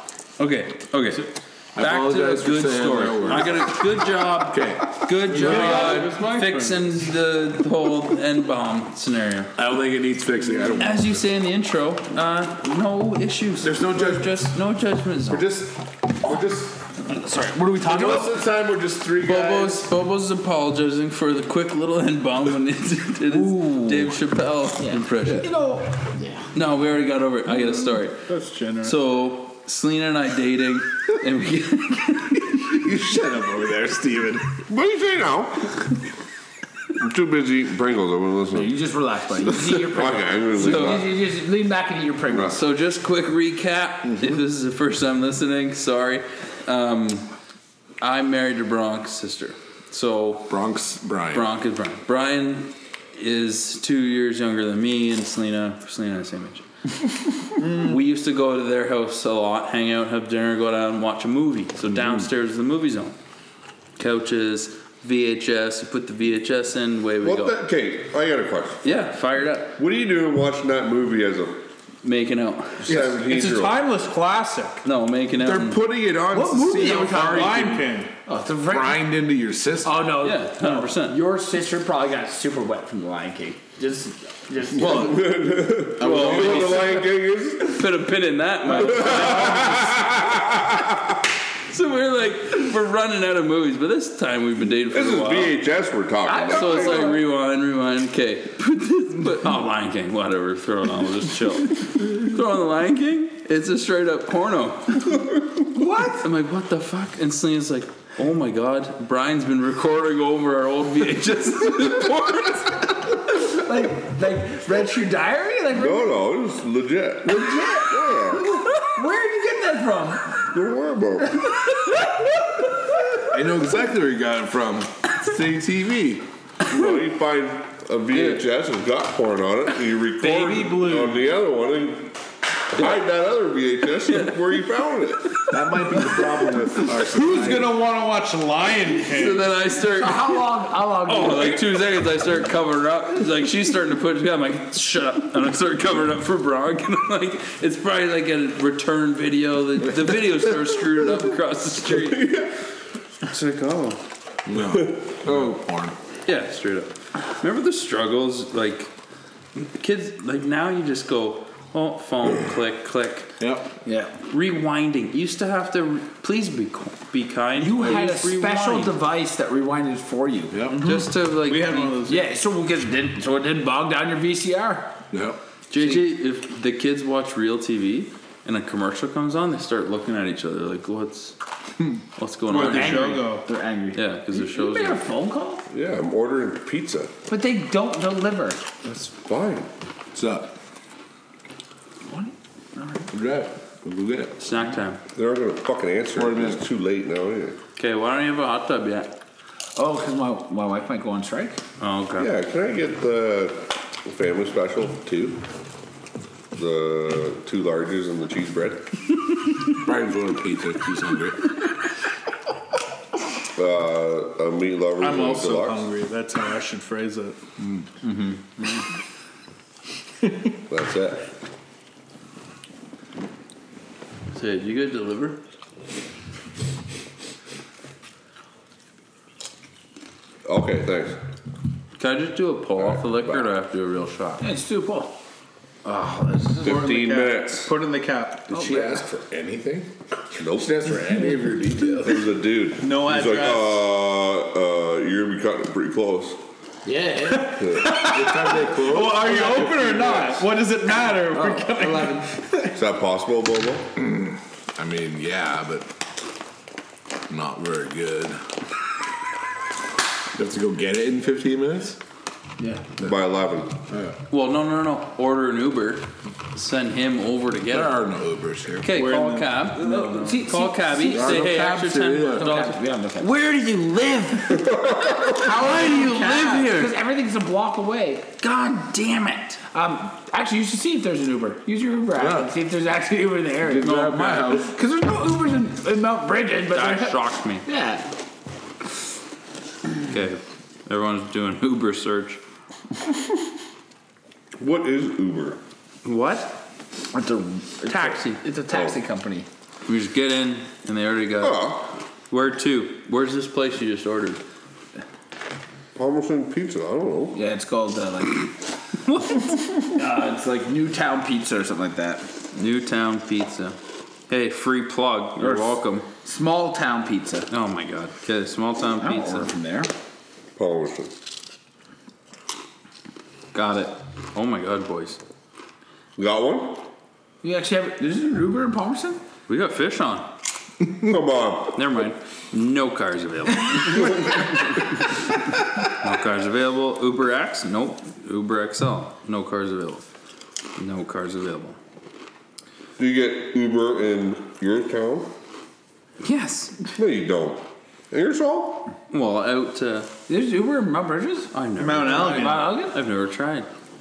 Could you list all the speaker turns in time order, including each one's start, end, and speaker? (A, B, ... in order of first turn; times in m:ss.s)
0:00.4-0:09.5 A
0:01.8-0:06.1 B
0:05.2-0:07.0 C
0:09.6-0:11.2 B
0:10.8-0:15.5 A
0:13.6-0:14.6 B
0:15.3-0:16.8 B
0:17.0-0:18.3 D
0:17.8-0:19.9 B
0:19.2-0:25.5 A
0:23.3-0:24.2 D
0:24.8-0:26.5 D
0:26.5-0:28.3 A
0:28.3-0:29.0 C
0:28.8-0:32.7 A
0:32.5-0:34.6 B
0:34.7-0:35.8 E
0:36.9-0:38.8 E
0:38.5-0:42.6 D
0:39.4-0:41.1 E
0:40.6-0:41.1 A
0:42.3-0:42.6 E
0:42.5-0:47.3 A
0:44.0-0:44.4 B
0:48.0-0:50.6 A
0:50.5-0:51.5 B
0:51.3-0:56.6 A
0:57.6-0:58.0 C
0:57.6-1:03.1 A
1:04.0-1:07.6 A
1:07.2-1:08.8 E
1:08.8-1:09.8 A
1:09.8-1:11.6 E
1:12.0-1:13.0 A
1:12.8-1:13.8 E
1:12.9-1:14.8 C
1:14.8-1:15.8 A
1:15.4-1:17.9 B
1:16.3-1:19.1 D
1:16.8-1:18.1 C
1:18.7-1:20.1 B
1:19.8-1:25.4 D
1:20.2-1:21.2 A
1:24.7-1:27.8 E
1:26.0-1:27.0 D
1:26.0-1:26.9 A
1:26.1-1:26.6 B
1:27.6-1:30.2 A
1:28.7-1:29.8 D
1:28.7-1:30.8 E
1:31.7-1:35.6 A
1:34.9-1:37.2 E
1:36.2-1:37.2 D
1:36.5-1:45.2 A
1:45.7-1:46.3 D
1:46.2-1:53.2 A
1:53.3-1:56.1 D
1:55.7-1:58.4 E
1:57.2-2:00.3 D
2:00.5-2:01.4 E
2:03.3-2:06.2 B
2:06.7-2:12.1 E
2:08.1-2:08.4 A
2:10.2-2:11.2 C
2:12.7-2:15.4 E
2:14.0-2:14.4 A
2:15.5-2:17.7 B
2:17.0-2:19.5 C
2:19.1-2:20.5 A
2:19.9-2:21.7 D
2:21.0-2:32.4 A
2:32.0-2:32.5 E
2:33.2-2:34.0 A
2:34.4-2:36.0 B
2:36.2-2:38.9 A
2:39.7-2:43.3 A
2:43.4-2:43.7 B
2:43.8-2:44.1 D
2:44.2-2:49.0 A
2:47.6-2:50.6 D
2:50.5-2:50.8 B
2:50.7-2:52.2 C
2:50.8-2:52.0 A
2:52.0-2:54.9 D
2:55.1-2:55.4 B
2:55.7-3:01.4 A
2:55.7-2:56.1 D
3:02.2-3:03.2 A
3:02.5-3:03.4 C
3:02.6-3:05.6 D
3:03.9-3:05.1 A
3:05.7-3:07.1 E
3:07.3-3:08.6 D
3:08.8-3:09.7 E
3:10.1-3:10.5 B
3:12.1-3:13.1 D
3:13.1-3:14.3 B
3:14.4-3:15.0 A
3:15.1-3:17.6 E
3:16.1-3:16.6 B
3:17.8-3:19.1 A
3:19.8-3:21.6 D
3:21.8-3:22.3 A
3:22.2-3:25.4 E
3:26.5-3:28.8 E
3:29.7-3:31.5 B
3:33.6-3:35.9 E
3:35.0-3:37.4 C
3:37.6-3:37.9 B
3:38.0-3:38.4 A
3:40.2-3:40.5 C
3:40.7-3:41.3 E
3:44.3-3:45.4 A
3:50.4-3:51.2 E
3:52.0-3:54.4 A
3:52.8-3:53.5 E
3:54.4-3:55.1 D
3:55.8-3:56.6 D
3:56.6-3:58.5 C
3:56.6-3:57.7 E
3:58.5-3:59.9 B
3:58.5-3:59.0 D
4:00.3-4:01.0 E
4:00.6-4:02.3 B
4:02.0-4:06.4 E
4:02.8-4:03.8 C
4:06.8-4:07.8 D
4:07.3-4:12.5 C
4:07.6-4:08.0 E
4:08.0-4:10.4 B
4:08.9-4:10.2 D
4:11.3-4:11.8 B
4:11.8-4:12.7 D
4:12.7-4:13.9 E
4:14.0-4:15.9 B
4:17.3-4:18.4 B
4:20.3-4:22.0 B
4:22.6-4:22.8 D
4:23.0-4:23.8 E
4:23.9-4:24.2 B
4:24.3-4:28.0 A
4:27.7-4:29.0 B
4:28.8-4:34.7 A
4:28.9-4:30.0 C
4:29.8-4:31.5 D
4:31.1-4:32.5 B
4:32.3-4:33.4 D
4:34.6-4:35.6 E
4:35.2-4:38.4 D
4:35.3-4:36.9 A
4:38.4-4:39.6 A
4:39.7-4:48.0 D
4:42.2-4:42.5 B
4:43.6-4:44.7 B
4:43.8-4:44.6 A
4:46.7-4:47.6 A
4:50.0-4:52.4 A
4:54.6-4:55.6 E
4:56.0-4:56.6 A
4:57.1-4:59.5 D
4:57.9-4:58.4 A
4:59.8-5:04.4 A
5:01.4-5:01.9 E
5:05.9-5:07.4 E
5:07.3-5:08.5 D
5:09.1-5:09.5 A
5:09.8-5:12.3 D
5:12.5-5:13.8 A
5:14.3-5:16.0 A
5:15.4-5:17.5 D
5:17.5-5:19.5 A
5:19.0-5:19.9 D
5:20.6-5:21.1 E
5:23.5-5:25.2 A
5:26.2-5:26.8 E
5:27.4-5:29.2 D
5:29.5-5:30.2 A
5:30.8-5:31.8 E
5:31.7-5:34.9 A
5:33.9-5:34.5 E
5:35.9-5:40.0 A
5:40.8-5:41.8 A
5:43.0-5:45.3 E
5:46.2-5:46.9 A
5:46.9-5:48.9 E
5:49.1-5:50.1 A
5:50.3-5:51.5 D
5:51.5-5:53.7 A
5:51.8-5:52.7 C
5:52.1-5:53.0 D